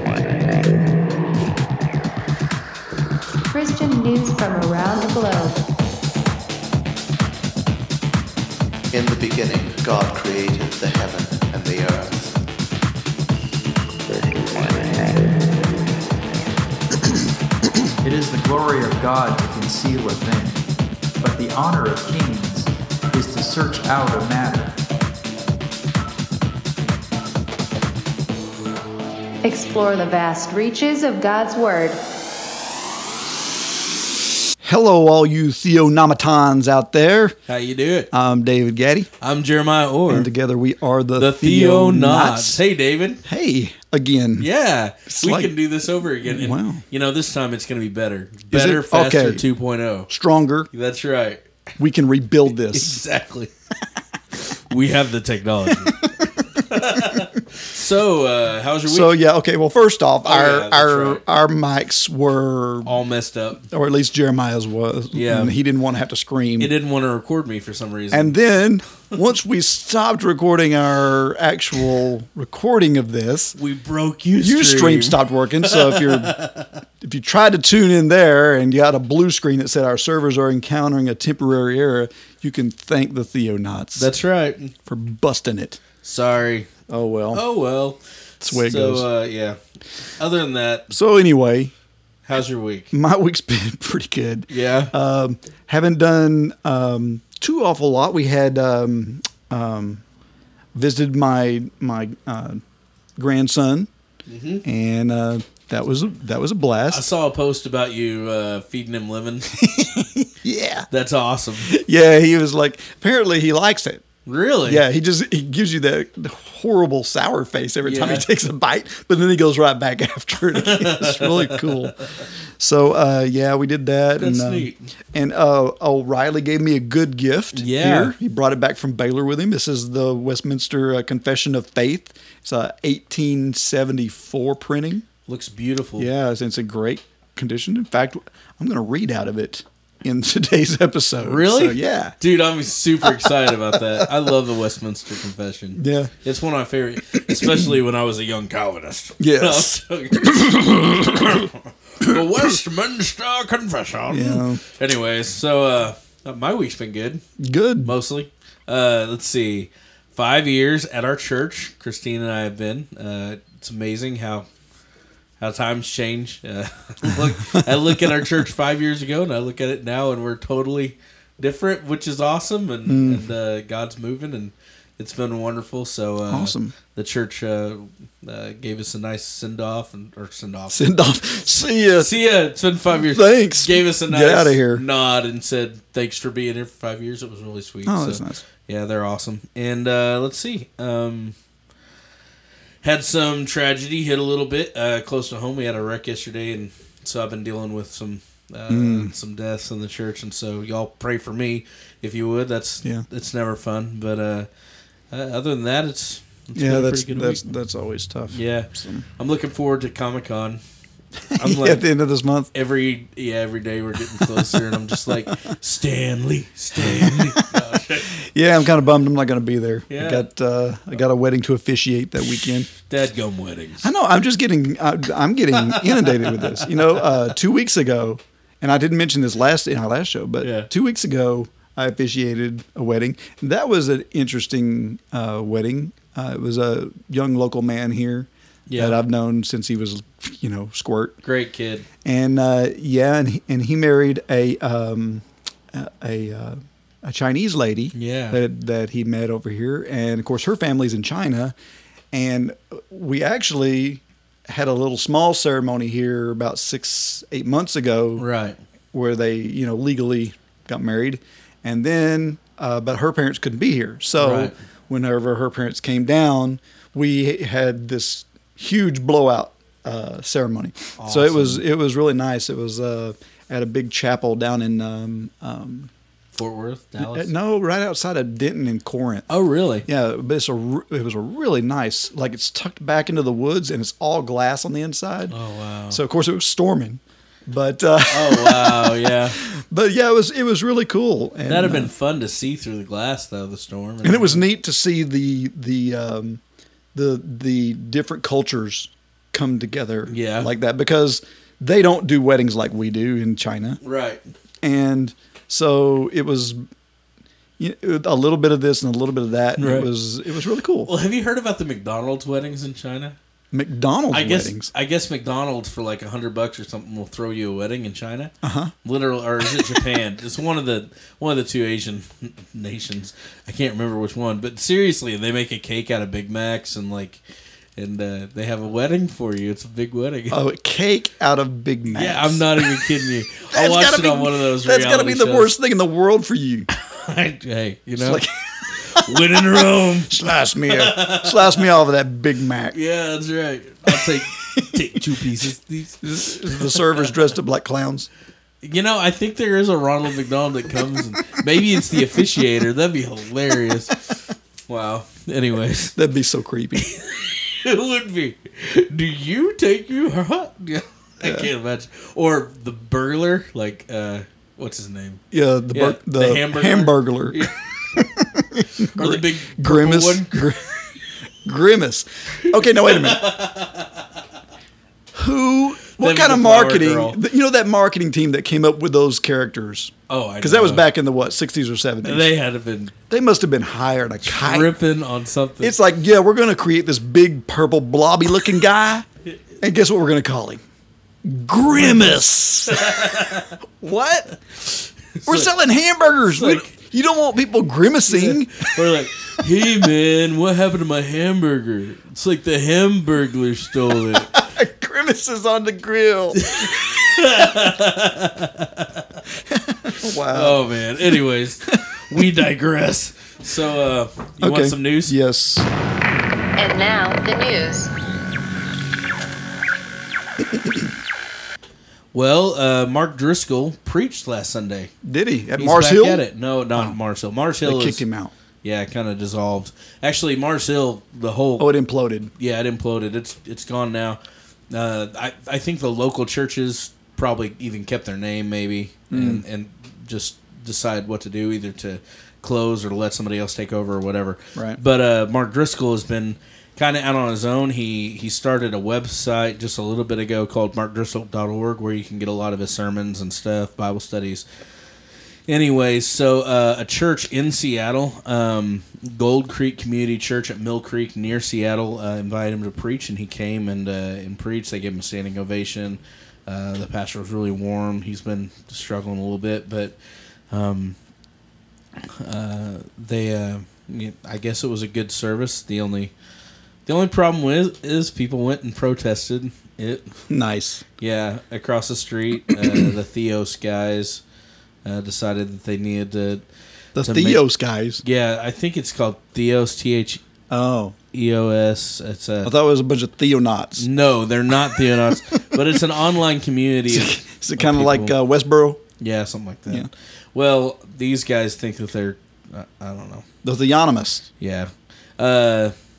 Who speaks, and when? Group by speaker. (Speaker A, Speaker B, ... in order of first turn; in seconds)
Speaker A: 3.5-5.6, 29.4-32.0, 416.6-417.9
Speaker B: 8.9-12.4
Speaker C: 18.0-20.7, 21.2-24.8
Speaker D: 34.6-37.4, 38.1-39.1, 40.1-42.6, 43.2-44.5, 45.1-45.5, 46.2-46.8, 48.5-49.4, 50.1-50.7, 51.8-53.0, 58.9-62.9, 63.7-66.7, 68.1-73.5, 74.4-76.3, 77.0-84.1, 84.8-85.8, 86.9-87.4, 88.4-89.1, 90.9-91.7, 92.9-100.0, 100.7-102.6, 103.2-103.9, 104.6-107.0, 109.6-110.9, 111.6-114.0, 114.6-122.0, 122.6-135.0, 136.0-142.2, 143.2-144.1, 145.8-146.1, 147.1-147.6, 149.2-149.7, 150.2-151.4, 154.1-154.6, 157.4-157.9, 172.8-173.2, 176.3-176.8, 180.7-182.1, 183.0-184.8, 187.8-188.4, 198.7-199.1, 206.6-209.1, 211.3-212.5, 214.1-214.6, 216.7-217.4, 218.2-222.7, 223.8-241.2, 242.0-251.5, 252.1-258.2, 258.9-275.9, 277.0-279.3, 279.9-285.3, 285.9-291.9, 294.0-296.4, 296.9-303.8, 304.6-306.6, 307.6-310.9, 313.5-314.7, 318.4-318.7, 330.3-332.9, 333.5-336.7, 338.0-342.8, 346.0-348.1, 351.6-352.2, 355.9-356.9, 361.2-361.5, 365.3-370.9, 371.4-373.3, 375.1-382.3, 383.1-384.7, 385.6-389.1, 389.6-390.6, 391.2-393.3, 393.8-394.4, 395.3-398.7, 404.1-406.8, 409.5-410.6, 414.4-415.7, 425.0-427.0, 427.6-428.3, 431.6-432.3, 439.1-439.4, 444.6-444.8, 480.3-480.8, 482.6-482.9, 487.0-488.0, 490.5-491.0, 492.4-493.9, 496.9-498.8, 503.4-504.3
Speaker E: 37.5-38.1, 39.2-40.3, 41.2-43.2, 44.4-50.1, 50.7-51.4, 52.7-53.5, 54.7-56.0, 56.5-59.1, 60.2-61.2, 62.8-63.7, 65.1-65.5, 66.6-68.3, 73.5-76.7, 84.0-84.7, 86.0-86.7, 87.3-89.6, 90.2-90.9, 92.2-92.9, 94.5-94.9, 104.3-104.6, 106.9-109.6, 110.9-111.7, 114.2-114.8, 117.8-118.2, 120.6-121.9, 124.2-124.9, 127.5-128.2, 135.3-136.1, 141.2-157.2, 157.8-164.5, 165.4-180.8, 182.0-191.3, 192.8-204.5, 205.1-207.4, 208.3-210.6, 211.3-211.8, 212.5-218.2, 219.9-220.3, 222.9-223.9, 225.5-227.0, 230.4-230.7, 238.7-239.0, 241.2-241.8, 247.9-248.4, 258.2-258.6, 264.2-264.6, 271.0-271.6, 276.3-277.3, 279.3-279.9, 285.3-286.0, 288.1-289.4, 291.5-294.4, 300.1-300.5, 303.8-304.2, 309.6-309.9, 310.9-313.2, 314.1-318.3, 318.8-327.2, 327.8-330.4, 331.9-335.5, 336.8-338.2, 338.8-340.2, 340.7-341.6, 342.7-347.1, 348.6-354.2, 354.7-355.9, 356.8-365.2, 365.7-367.6, 368.9-370.5, 372.4-374.0, 376.0-377.2, 380.1-380.9, 382.0-382.9, 384.2-385.8, 391.8-393.6, 395.1-395.5, 396.3-396.7, 398.1-404.3, 406.4-409.1, 410.3-415.2, 422.1-424.9, 425.6-428.0, 428.6-431.7, 432.4-434.2, 434.7-454.4, 455.5-470.0, 470.5-471.0, 472.0-476.1, 476.9-480.1, 481.0-484.2, 484.9-486.4, 487.0-487.4, 488.0-490.2, 491.1-492.5, 493.8-498.1, 499.0-503.3, 504.4-505.7